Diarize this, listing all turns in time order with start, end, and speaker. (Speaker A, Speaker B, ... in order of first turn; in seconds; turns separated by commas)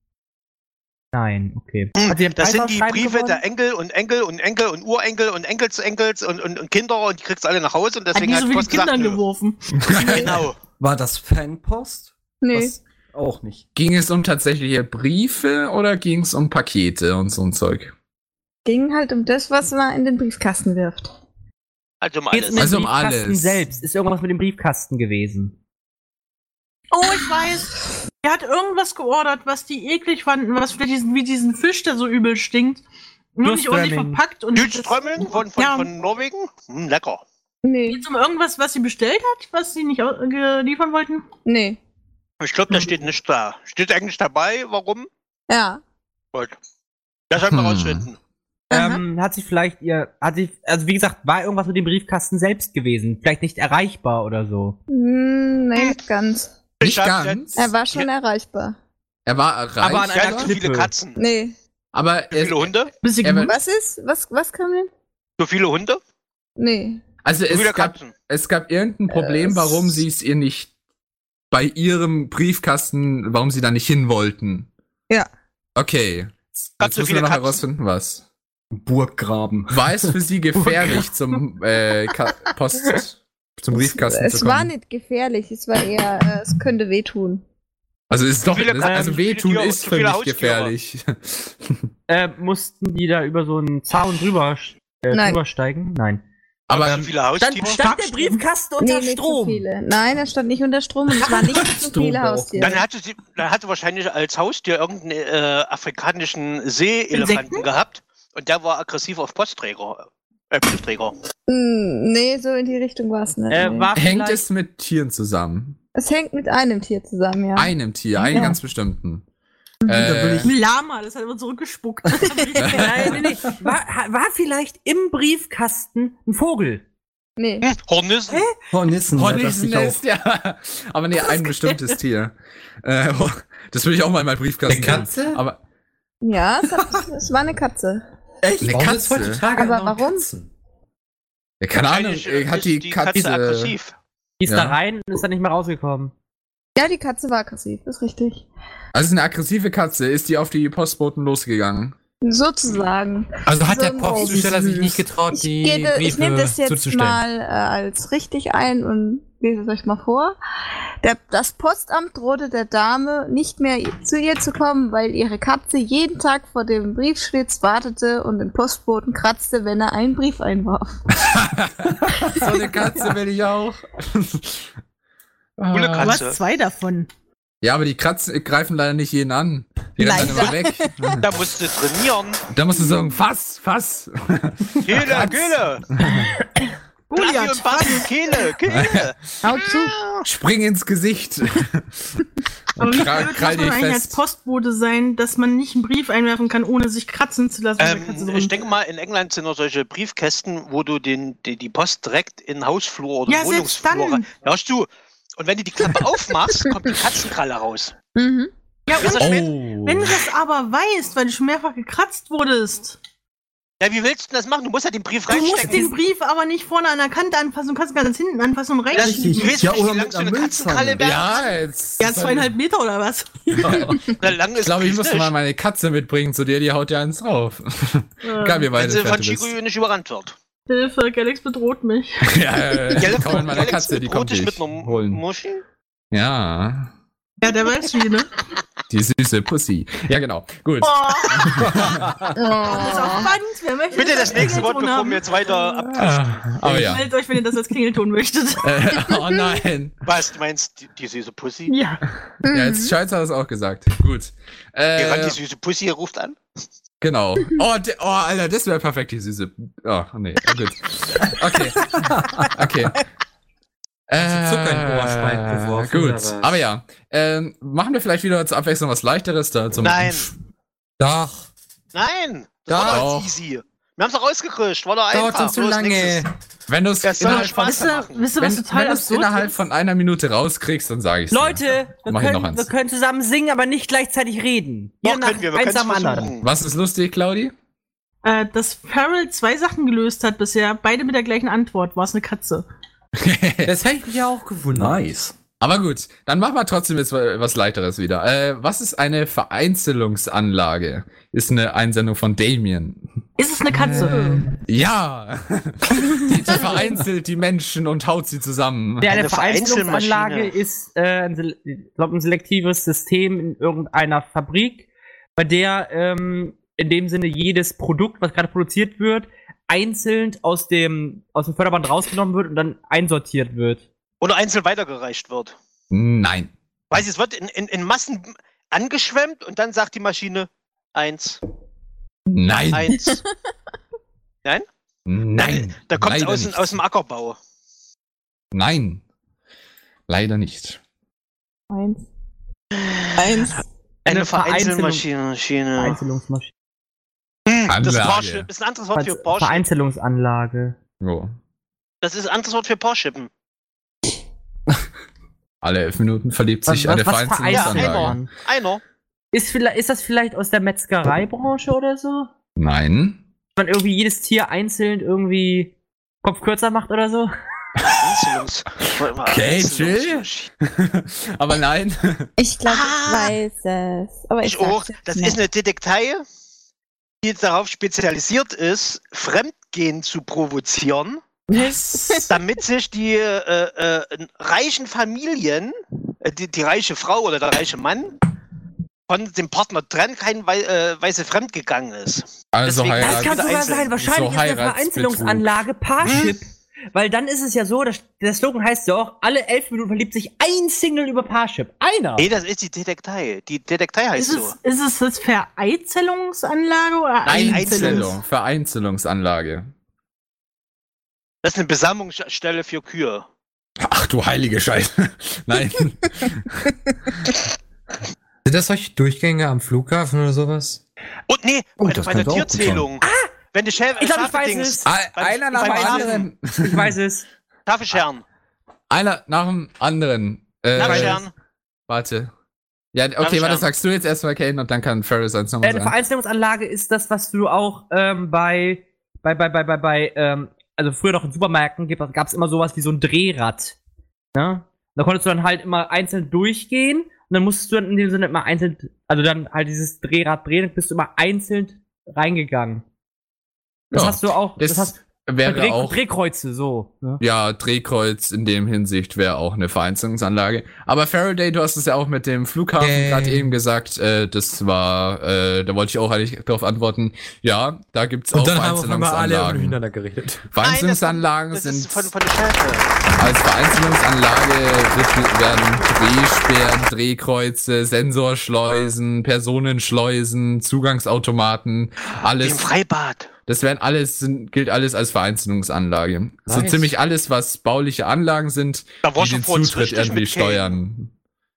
Speaker A: 1.1-3.4, Speaker B: 2.0-9.2, Speaker C: 8.1-10.2, Speaker D: 9.7-10.5, Speaker B: 10.1-10.6, Speaker E: 10.8-13.6, Speaker F: 12.4-12.8, Speaker D: 13.8-17.9, Speaker F: 18.6-21.1, Speaker B: 22.0-22.7, Speaker A: 22.3-25.6, Speaker D: 22.6-23.6, Speaker C: 26.9-32.8, Speaker C: 33.4-35.9, Speaker A: 33.4-34.2, Speaker B: 34.5-37.2, Speaker F: 37.6-38.0, Speaker C: 37.9-41.2, Speaker F: 41.5-41.8, Speaker B: 42.4-45.1, Speaker F: 45.5-45.8, Speaker B: 47.3-48.2, Speaker D: 47.5-48.1, Speaker F: 48.7-49.0, Speaker A: 48.7-54.8, Speaker F: 54.9-56.5, Speaker D: 56.8-57.7, Speaker B: 56.8-58.1, Speaker F: 57.6-58.8, Speaker D: 59.3-60.5, Speaker A: 59.8-60.9, Speaker B: 60.1-61.2, Speaker F: 61.2-61.5, Speaker D: 61.9-63.5, Speaker B: 62.3-62.9, Speaker C: 63.0-63.5, Speaker F: 63.4-64.9, Speaker B: 65.4-66.0, Speaker F: 66.6-67.0, Speaker D: 67.2-70.7, Speaker B: 67.5-68.1, Speaker F: 69.1-70.0, Speaker D: 71.5-74.7, Speaker D: 75.8-78.2, Speaker B: 76.8-77.6, Speaker E: 78.7-81.1, Speaker D: 79.7-84.7, Speaker F: 83.7-87.4, Speaker D: 88.1-91.8, Speaker B: 88.5-90.7, Speaker A: 88.8-89.2, Speaker A: 92.1-96.2, Speaker F: 95.1-95.4, Speaker D: 96.7-97.1, Speaker B: 96.7-97.8, Speaker A: 97.4-99.7, Speaker C: 97.8-98.4, Speaker F: 98.8-102.8, Speaker E: 101.3-102.7, Speaker B: 102.6-111.1, Speaker C: 107.1-107.7, Speaker F: 111.5-113.9, Speaker A: 113.5-114.4, Speaker D: 114.0-115.8, Speaker F: 116.0-118.6, Speaker D: 117.5-119.2, Speaker D: 119.9-120.5, Speaker E: 119.9-120.5, Speaker C: 120.4-123.2, Speaker D: 122.6-122.9, Speaker A: 122.7-126.8, Speaker F: 127.4-127.7, Speaker B: 127.6-128.5, Speaker E: 128.7-130.0, Speaker D: 129.1-135.6, Speaker G: 134.7-135.4, Speaker F: 136.2-138.0, Speaker E: 138.4-139.3, Speaker G: 138.6-140.5, Speaker F: 139.5-140.3, Speaker D: 141.6-143.8, Speaker B: 141.8-143.9, Speaker A: 144.4-146.1, Speaker D: 144.5-144.8, Speaker F: 146.8-148.4, Speaker D: 148.9-151.9, Speaker F: 152.2-160.4, Speaker G: 153.5-157.2, Speaker F: 161.0-171.0, Speaker D: 171.2-174.7, Speaker D: 175.6-176.2, Speaker B: 175.7-176.4, Speaker C: 176.0-177.1, Speaker D: 177.6-181.2, Speaker F: 180.0-181.2, Speaker B: 181.2-182.4, Speaker D: 182.5-186.3, Speaker B: 184.8-185.9, Speaker C: 187.1-188.1, Speaker B: 187.1-190.2, Speaker D: 188.7-189.1, Speaker F: 189.4-190.0, Speaker D: 190.2-192.1, Speaker D: 192.8-194.2, Speaker C: 192.8-198.6, Speaker B: 197.8-204.9, Speaker C: 203.3-204.3, Speaker B: 205.4-207.9, Speaker F: 208.2-208.5, Speaker C: 208.9-213.0, Speaker B: 208.9-209.5, Speaker D: 209.2-210.2, Speaker B: 213.8-215.9, Speaker C: 215.3-219.7, Speaker B: 218.9-221.3, Speaker E: 219.0-221.2, Speaker D: 221.0-222.5, Speaker C: 222.0-224.0, Speaker E: 223.6-223.9, Speaker B: 224.2-225.3, Speaker D: 224.6-229.5, Speaker C: 228.2-228.7, Speaker B: 228.8-230.4, Speaker C: 230.7-232.2, Speaker D: 232.2-235.2, Speaker B: 232.9-235.6, Speaker D: 236.1-236.9, Speaker C: 237.4-238.3, Speaker D: 238.9-242.2, Speaker C: 240.8-241.8, Speaker F: 242.3-243.3, Speaker C: 242.5-245.8, Speaker B: 243.9-246.5, Speaker D: 245.8-247.1, Speaker C: 246.6-248.7, Speaker D: 248.6-249.9, Speaker B: 250.1-251.8, Speaker C: 251.7-252.0, Speaker F: 252.5-252.9, Speaker D: 252.5-255.4, Speaker B: 255.0-256.4, Speaker D: 257.0-263.0, Speaker D: 264.1-270.3, Speaker G: 264.2-266.6, Speaker B: 269.8-270.3, Speaker G: 271.0-271.5, Speaker B: 271.9-276.2, Speaker G: 272.7-273.1, Speaker D: 272.8-273.4, Speaker G: 275.1-276.3, Speaker D: 276.7-282.7, Speaker B: 277.0-278.4, Speaker C: 277.2-279.6, Speaker A: 281.3-286.3, Speaker B: 285.0-286.5, Speaker D: 286.4-287.5, Speaker C: 288.2-292.7, Speaker D: 293.2-293.8, Speaker G: 293.6-295.0, Speaker E: 294.7-295.4, Speaker D: 295.6-303.1, Speaker C: 303.4-304.4, Speaker G: 303.8-304.4, Speaker D: 303.9-309.2, Speaker F: 304.1-304.4, Speaker A: 309.0-323.9, Speaker B: 309.1-310.5, Speaker B: 324.2-325.6, Speaker D: 325.9-326.5, Speaker B: 326.9-331.4, Speaker D: 332.3-333.0, Speaker B: 332.7-333.2, Speaker D: 335.1-336.8, Speaker B: 335.4-337.4, Speaker D: 338.5-339.0, Speaker D: 340.1-340.8, Speaker F: 341.7-342.0, Speaker B: 342.7-343.4, Speaker F: 343.1-343.6, Speaker B: 344.1-346.0, Speaker A: 344.1-345.1, Speaker A: 345.8-346.5, Speaker B: 347.5-349.6, Speaker D: 347.7-348.5, Speaker A: 348.9-350.8, Speaker D: 351.0-351.4, Speaker B: 352.0-353.3, Speaker D: 355.6-358.2, Speaker A: 356.7-358.3, Speaker B: 357.5-358.8, Speaker A: 359.3-362.3, Speaker D: 362.6-363.2, Speaker A: 363.6-367.3, Speaker B: 367.9-370.5, Speaker D: 368.9-372.3, Speaker F: 372.4-375.4, Speaker B: 372.7-373.4, Speaker B: 374.4-376.2, Speaker B: 377.2-381.2, Speaker F: 381.5-382.4, Speaker B: 382.3-388.1, Speaker B: 389.1-393.9, Speaker D: 392.5-395.6, Speaker A: 393.0-402.3, Speaker B: 396.0-396.4, Speaker B: 402.2-404.6, Speaker C: 404.2-408.2, Speaker B: 407.2-408.2, Speaker D: 407.3-409.7, Speaker B: 411.4-413.3, Speaker D: 413.8-417.3, Speaker G: 418.4-420.8, Speaker B: 421.3-426.3, Speaker E: 421.9-422.8, Speaker A: 423.0-423.3, Speaker A: 424.0-424.9, Speaker D: 424.9-426.9, Speaker A: 425.5-427.2, Speaker B: 427.7-428.2, Speaker D: 428.9-431.3, Speaker B: 430.8-431.3, Speaker A: 430.8-431.1, Speaker D: 431.9-432.3, Speaker D: 432.9-435.9, Speaker B: 433.2-433.7, Speaker A: 435.6-443.8, Speaker A: 444.3-452.8, Speaker D: 453.9-456.0, Speaker A: 453.9-457.0, Speaker D: 457.2-469.8, Speaker G: 462.8-463.5, Speaker G: 468.3-470.5, Speaker D: 470.5-472.1, Speaker B: 470.6-472.9, Speaker D: 473.1-482.7, Speaker B: 482.4-483.3, Speaker D: 483.5-491.1, Speaker G: 486.5-486.9, Speaker B: 489.0-490.8